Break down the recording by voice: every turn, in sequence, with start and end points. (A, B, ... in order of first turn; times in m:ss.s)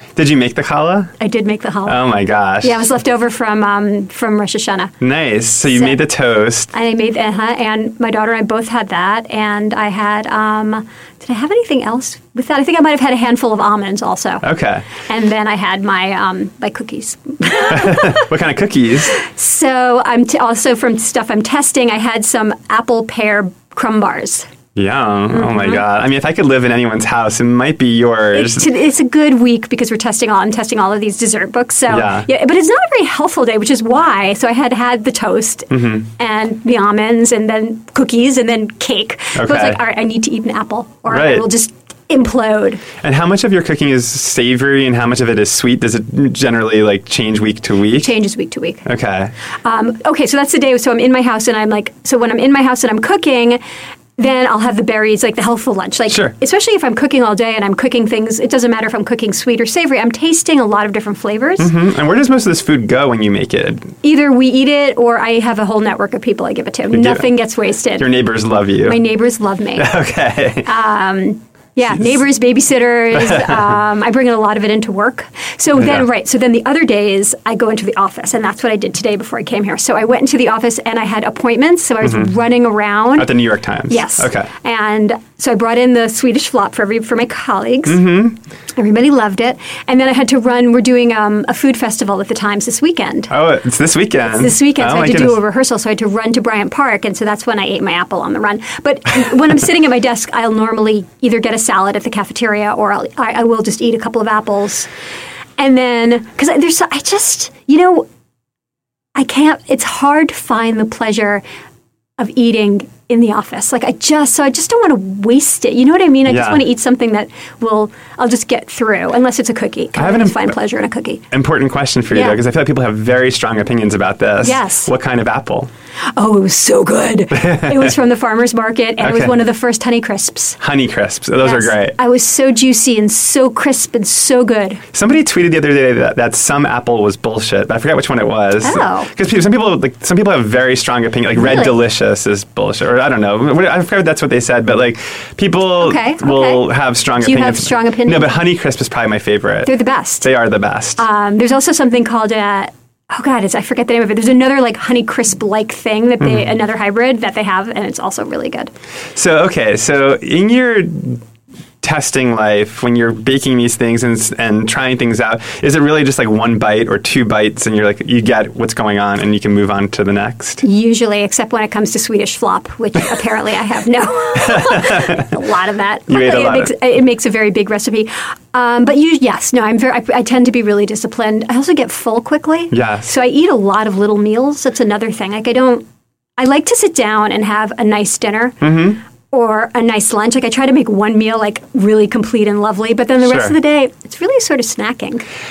0:00.2-0:01.1 A
0:01.2-0:02.0 B
0:01.8-0:02.9 A
0:02.6-0:04.9 B
0:05.0-0:06.7 A
0:05.7-0:06.0 B
0:06.7-0:14.4 B
0:14.4-0:14.9 A
0:15.0-0:18.2 B
0:17.7-0:19.2 A
0:19.1-0:24.5 B
0:24.7-0:28.7 A
0:25.3-0:25.8 B
0:28.3-0:42.8 B
0:31.9-0:32.3 A
0:35.7-0:36.0 A
0:39.3-0:39.8 A
0:41.1-0:41.4 A
0:43.0-0:48.1 A
0:47.9-0:48.8 B
0:48.8-0:49.3 A
0:49.6-0:53.6 B
0:54.2-1:01.7 B
1:01.6-1:03.9 A
1:04.0-1:08.1 B
1:06.9-1:07.3 A
1:08.0-1:09.0 A
1:08.8-1:09.9 B
1:09.8-1:10.7 A
1:10.6-1:23.3 B
1:13.1-1:13.7 A
1:15.8-1:16.0 A
1:22.0-1:22.3 A
1:23.2-1:24.5 A
1:23.9-1:28.0 B
1:27.9-1:28.4 A
1:28.8-1:33.3 B
1:33.3-1:35.4 A
1:34.2-1:44.9 B
1:45.6-1:48.1 B
1:49.2-1:51.4 B
1:52.2-2:01.2 B
1:56.2-1:56.6 A
2:00.0-2:00.5 A
2:01.3-2:05.7 A
2:02.1-2:02.4 B
2:04.4-2:04.9 B
2:06.1-2:10.6 B
2:07.4-2:07.8 A
2:09.0-2:09.4 A
2:10.6-2:12.0 A
2:11.4-2:14.8 B
2:14.9-2:29.7 A
2:18.6-2:19.1 B
2:21.4-2:21.8 B
2:25.8-2:28.3 B
2:29.6-2:30.3 B
2:30.2-2:31.0 A
2:31.0-2:38.7 B
2:39.2-2:41.2 A
2:41.8-2:50.6 A
2:50.6-3:05.8 B
2:54.4-2:55.3 A
2:56.1-2:56.7 A
3:02.7-3:03.1 A
3:06.4-3:08.7 B
3:08.6-3:09.0 A
3:09.3-3:15.2 B
3:13.2-3:13.6 A